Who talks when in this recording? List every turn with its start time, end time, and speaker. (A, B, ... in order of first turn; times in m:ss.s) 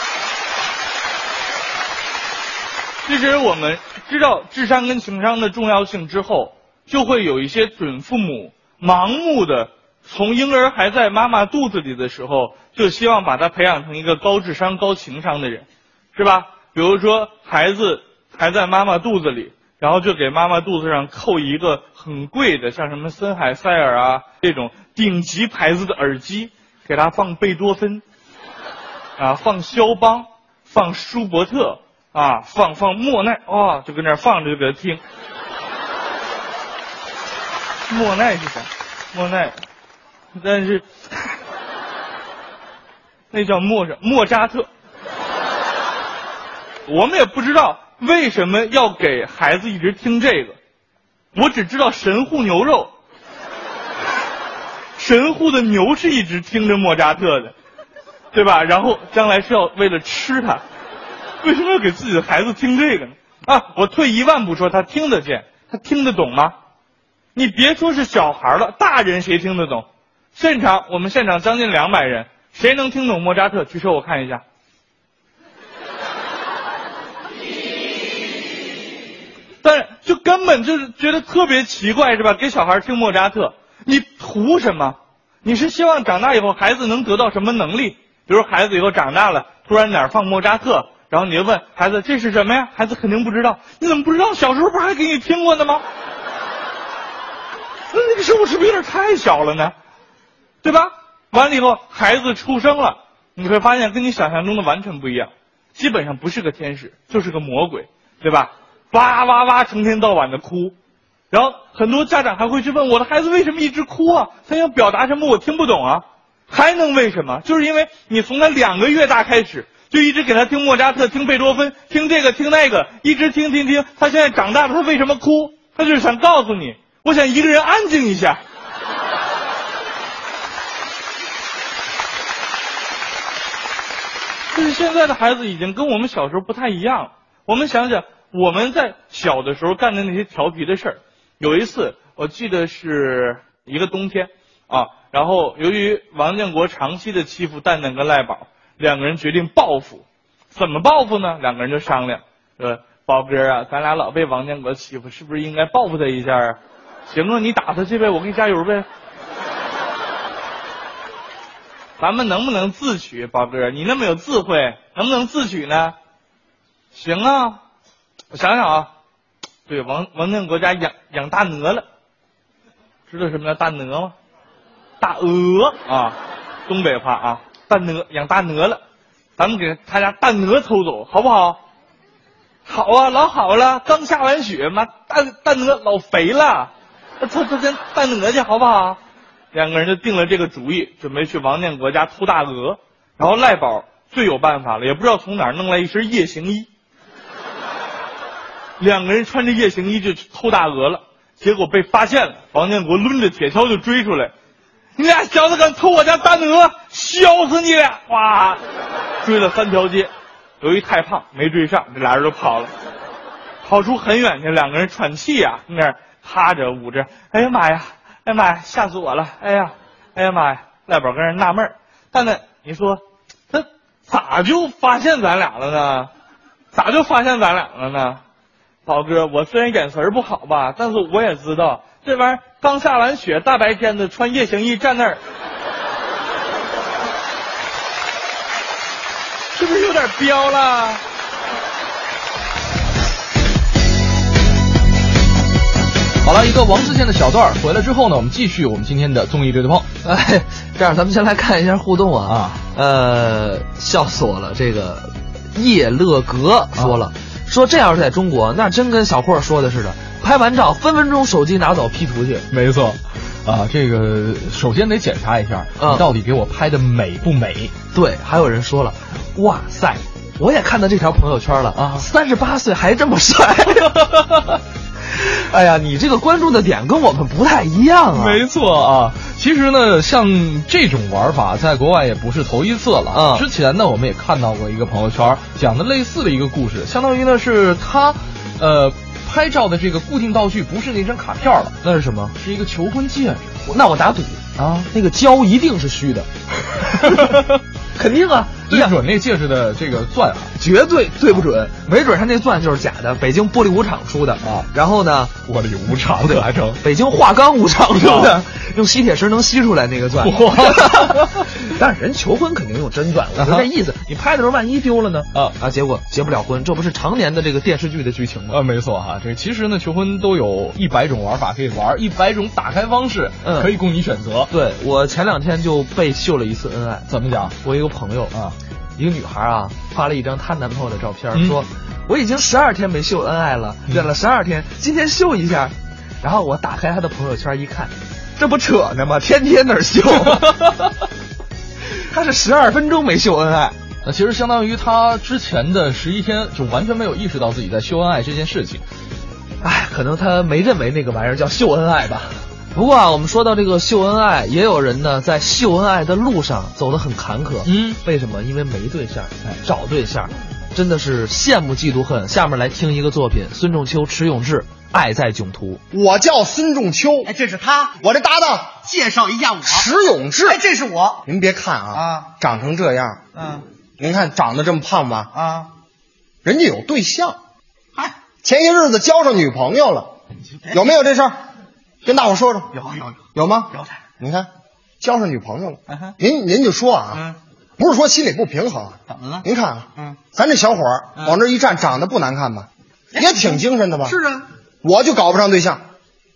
0:03.1-0:28.0 A
0:29.2-0:35.0 A
0:37.9-0:39.6 A
0:40.4-0:41.4 A
0:43.3-0:44.7 A
0:46.9-0:50.6 A
0:51.3-0:52.9 A
0:55.0-0:57.5 A
0:58.3-1:00.6 A
1:01.4-1:06.5 A
1:07.4-1:14.4 A
1:19.6-1:35.8 A
1:37.9-1:39.7 A
1:40.6-1:50.7 A
1:51.3-2:08.4 A
2:14.5-2:38.9 A
2:42.0-2:46.0 A
2:46.9-2:47.6 A
2:48.3-2:48.9 A
2:49.7-2:51.8 A
2:53.1-2:54.1 A
2:55.0-2:58.8 A
2:59.4-3:01.6 A
3:02.7-3:09.0 A
3:09.5-3:16.7 A
3:18.8-3:24.3 A
3:25.0-3:28.6 A
3:29.2-3:30.1 A
3:30.6-3:32.7 A
3:33.6-3:43.0 A
3:43.5-3:46.1 A
3:46.7-3:48.2 A
3:48.9-3:55.2 A
3:59.5-4:01.0 A
4:06.2-4:09.9 B
4:10.0-4:22.5 C
4:12.3-4:12.6 B
4:22.5-4:27.7 B
4:25.8-4:26.1 C
4:27.9-4:34.0 C
4:31.8-4:32.1 B
4:33.8-4:34.6 B
4:35.1-4:38.4 C
4:38.1-4:51.8 B
4:43.1-4:43.5 C
4:51.8-4:52.3 C
4:52.4-4:53.6 B
4:53.7-4:56.3 C
4:54.6-4:54.9 B
4:56.8-4:57.4 C
4:57.0-4:57.6 B
4:58.0-4:59.0 C
4:58.7-5:00.5 B
5:00.6-5:05.4 C
5:04.4-5:04.7 B
5:05.4-5:06.8 B
5:06.8-5:18.6 C
5:08.0-5:08.4 B
5:10.2-5:11.5 B
5:13.4-5:13.7 B
5:18.5-5:24.5 B
5:23.4-5:23.7 C
5:24.5-5:28.3 C
5:27.1-5:27.6 B
5:29.0-5:40.6 C
5:31.3-5:31.6 B
5:40.3-5:40.9 B
5:42.0-5:43.8 C
5:44.0-5:48.8 B
5:49.6-6:05.8 C
5:57.6-5:58.0 B
6:05.9-6:07.3 D
6:07.2-6:08.0 E
6:08.0-6:08.8 D
6:08.8-6:09.9 E
6:09.6-6:10.6 D
6:10.4-6:11.2 E
6:11.3-6:13.2 D
6:11.9-6:12.3 E
6:13.3-6:13.6 E
6:14.0-6:15.3 D
6:15.3-6:15.7 E
6:16.4-6:17.4 D
6:18.4-6:20.1 D
6:20.6-6:20.9 E
6:20.7-6:21.4 D
6:22.0-6:22.8 D
6:22.7-6:24.0 E
6:23.4-6:24.5 D
6:25.0-6:27.2 D
6:25.9-6:26.2 E
6:27.1-6:27.4 E
6:27.8-6:34.2 D
6:29.1-6:30.2 E
6:33.1-6:34.5 E
6:34.8-6:35.8 D